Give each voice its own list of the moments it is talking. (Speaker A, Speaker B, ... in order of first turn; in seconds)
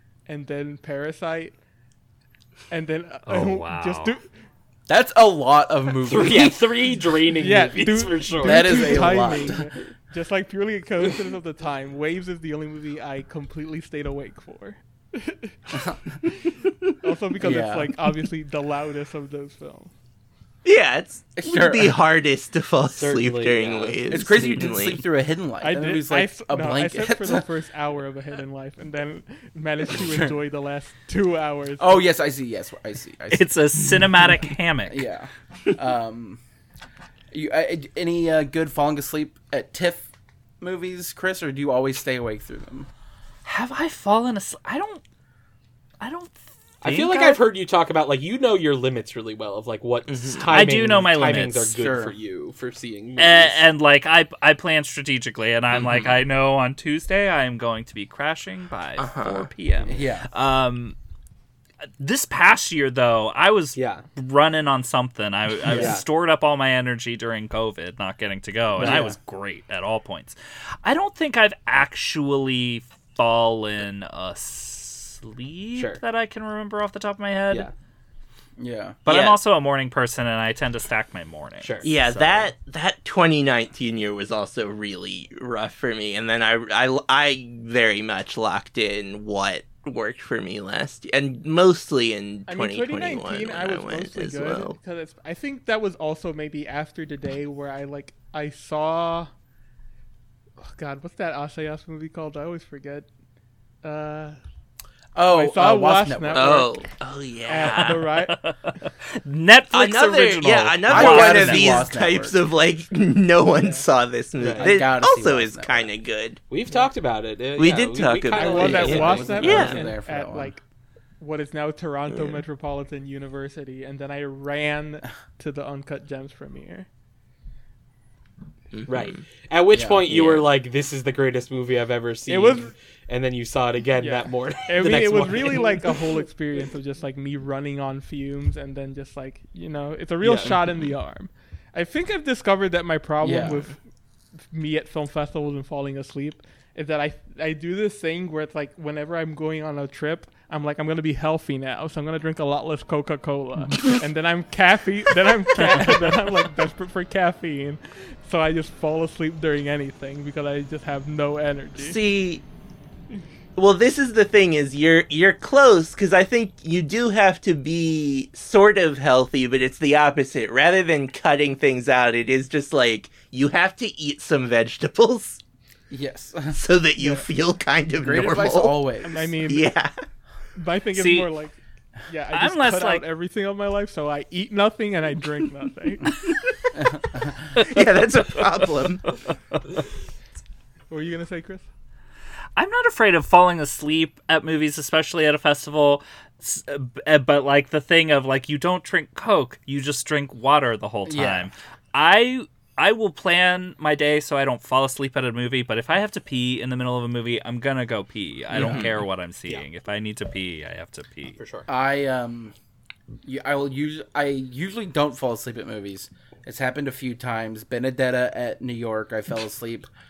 Speaker A: 0.3-1.6, 2.7-4.3, 7.4-19.9, 25.6-32.0, 92.5-99.3, 100.6-103.1, 103.8-104.4, 105.3-106.7, 107.5-108.5, 113.6-113.8, 118.3-120.6, 121.2-126.9, 132.3-132.7, 134.0-143.8, 144.4-162.0, 179.0-179.7, 180.6-186.2, 190.9-191.7
Speaker B: 3.3-4.2, 33.3-35.1, 43.5-45.0, 46.0-47.4, 50.5-51.8, 53.2-61.0, 62.0-77.7, 79.1-82.3, 107.5-111.9, 181.0-181.3, 182.3-183.1, 192.6-211.4
Speaker C: 4.9-6.6, 8.4-9.7, 15.7-16.0, 17.4-18.0, 21.4-22.0, 24.1-27.5, 29.9-30.3, 31.8-33.5, 34.9-36.4, 37.3-40.1, 40.6-42.9, 51.8-52.1, 59.9-60.3, 65.7-66.0, 68.8-69.2, 78.6-79.0, 105.2-106.7, 110.9-112.4, 114.5-115.9, 118.6-120.5, 129.7-130.1, 143.2-143.7, 175.9-176.6, 178.0-179.3, 186.7-187.4, 201.1-201.5, 208.5-208.9, 211.7-212.5, 213.2-219.9
Speaker D: 6.1-9.2, 22.9-24.0, 46.8-53.6, 63.8-64.0, 65.7-66.0, 75.8-76.0, 81.6-82.4, 114.4-114.7, 116.5-119.7, 128.9-136.2, 140.2-140.6, 211.3-211.7
Speaker E: 20.6-25.0, 50.1-50.7, 55.7-56.2, 59.0-59.5, 79.1-79.4, 81.8-94.8, 106.3-108.0, 109.7-116.4, 117.6-119.9, 122.1-122.4, 128.7-129.2, 130.1-130.5, 161.8-162.4, 163.6-175.4, 176.5-179.9, 187.5-189.1, 208.5-209.0